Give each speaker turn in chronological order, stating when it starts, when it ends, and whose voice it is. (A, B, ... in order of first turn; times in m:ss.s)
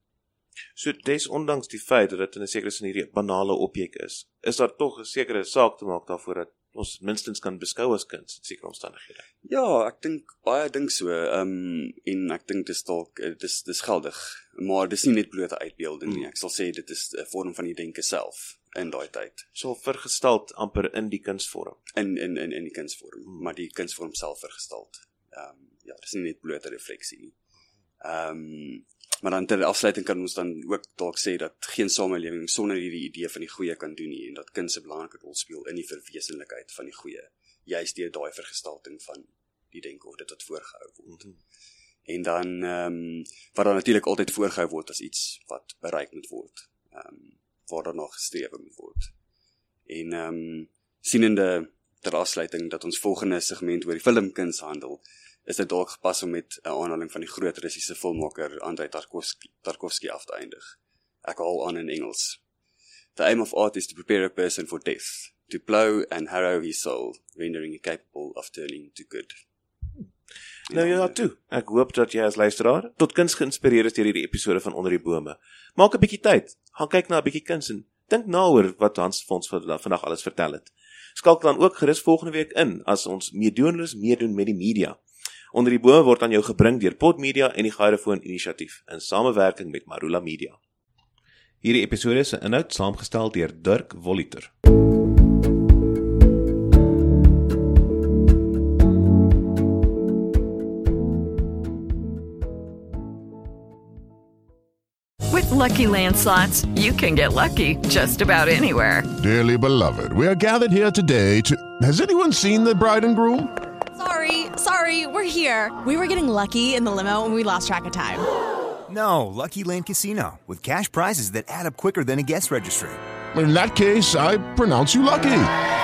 0:00.8-0:09.2 A
0:09.4-0:19.4 B
0:19.6-0:21.8 A
0:21.9-0:27.3 B
0:28.0-0:41.2 B
0:42.1-0:49.1 B
0:49.9-1:02.4 B
1:03.2-1:09.3 B
1:10.7-1:11.1 B
1:10.7-1:25.0 A
1:25.5-1:30.6 A
1:31.6-1:34.5 A
1:45.3-1:49.1 C
1:49.2-1:53.5 D
1:54.0-1:58.2 E
1:58.9-2:03.0 F
2:03.3-2:05.5 D